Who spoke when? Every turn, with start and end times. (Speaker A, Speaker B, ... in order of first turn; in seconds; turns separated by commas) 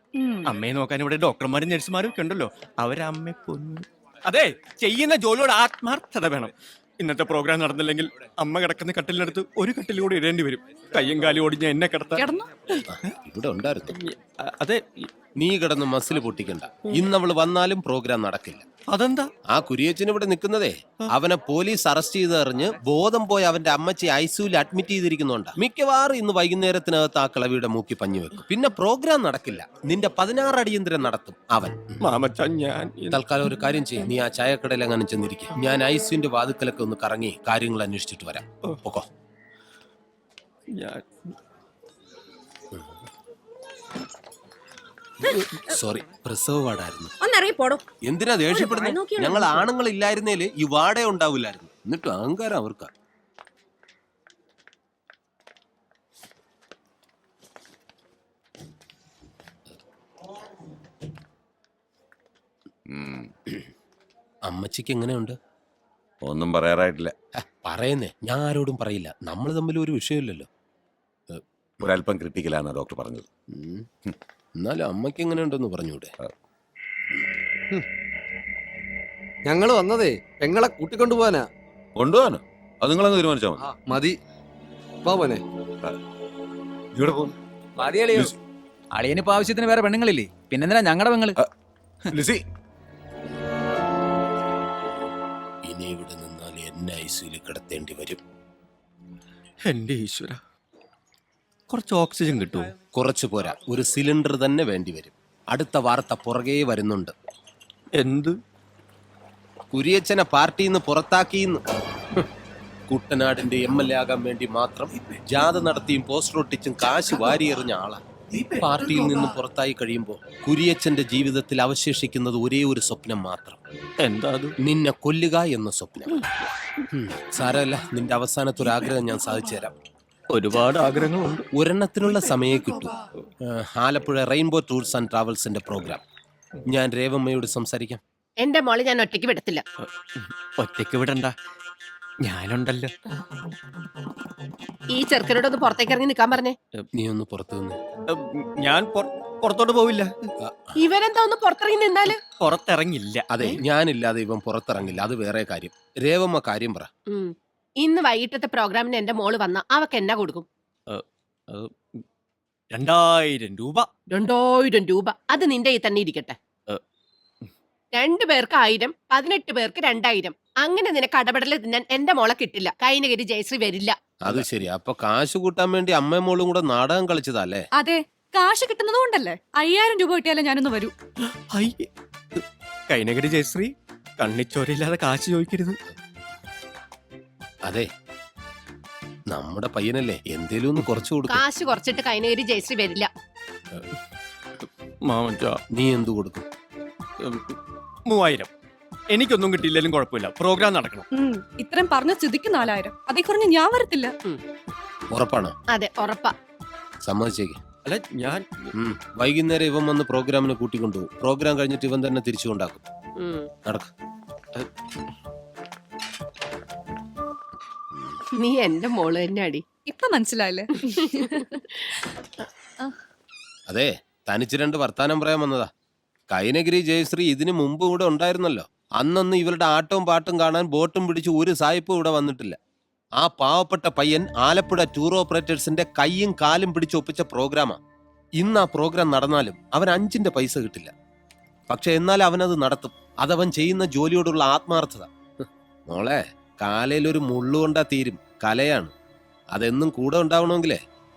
Speaker A: 0.1-0.5, Speaker B: 0.4-12.9, Speaker A: 12.2-12.5, Speaker C: 12.9-14.0, Speaker B: 14.0-15.1, Speaker C: 15.4-18.6, Speaker B: 18.9-19.3, Speaker C: 19.5-32.1, Speaker B: 32.0-33.2, Speaker C: 33.1-39.1, Speaker B: 40.7-41.0, Speaker C: 42.7-43.0, Speaker C: 45.7-47.1, Speaker C: 48.0-52.9, Speaker D: 62.9-63.3, Speaker C: 64.5-65.3, Speaker D: 66.2-67.1, Speaker C: 67.4-70.5, Speaker C: 71.3-71.9, Speaker D: 71.8-73.2, Speaker C: 73.5-73.9, Speaker C: 74.6-76.1, Speaker E: 79.5-81.5, Speaker D: 82.0-83.6, Speaker E: 85.0-85.4, Speaker F: 87.8-88.3, Speaker F: 88.9-91.4, Speaker C: 95.7-98.2, Speaker B: 99.7-100.4, Speaker B: 101.7-102.7, Speaker C: 102.9-107.1, Speaker B: 108.0-108.3, Speaker C: 109.7-111.6, Speaker C: 112.9-118.0, Speaker B: 118.3-119.3, Speaker C: 118.6-123.6, Speaker B: 124.0-124.5, Speaker C: 124.6-126.2, Speaker C: 126.9-129.7, Speaker B: 130.3-131.4, Speaker C: 131.5-136.0, Speaker C: 136.7-138.0, Speaker G: 138.4-139.6, Speaker B: 139.8-141.3, Speaker B: 142.2-142.9, Speaker G: 144.9-146.6, Speaker C: 146.9-147.8, Speaker B: 148.1-150.3, Speaker C: 150.4-150.8, Speaker G: 150.8-152.2, Speaker B: 152.4-153.2, Speaker C: 153.3-156.9, Speaker G: 157.1-160.4, Speaker B: 160.9-161.9, Speaker B: 162.7-163.9, Speaker G: 164.1-166.4, Speaker G: 167.9-174.0, Speaker C: 174.2-177.6, Speaker A: 177.8-180.9, Speaker B: 181.5-185.8, Speaker C: 189.3-191.4, Speaker G: 191.3-193.1, Speaker B: 194.6-195.6, Speaker C: 195.7-196.4, Speaker B: 197.2-198.5, Speaker B: 199.1-201.1, Speaker A: 201.1-204.1, Speaker C: 205.1-205.6, Speaker G: 205.7-206.3, Speaker C: 207.0-207.6, Speaker B: 207.8-208.7, Speaker C: 208.7-212.8, Speaker G: 213.2-213.5, Speaker C: 213.6-213.9, Speaker G: 218.3-219.6, Speaker A: 219.8-221.6, Speaker C: 223.7-225.7, Speaker C: 226.3-232.6, Speaker C: 233.2-237.8, Speaker C: 238.4-240.9, Speaker C: 241.7-248.9, Speaker C: 249.5-250.8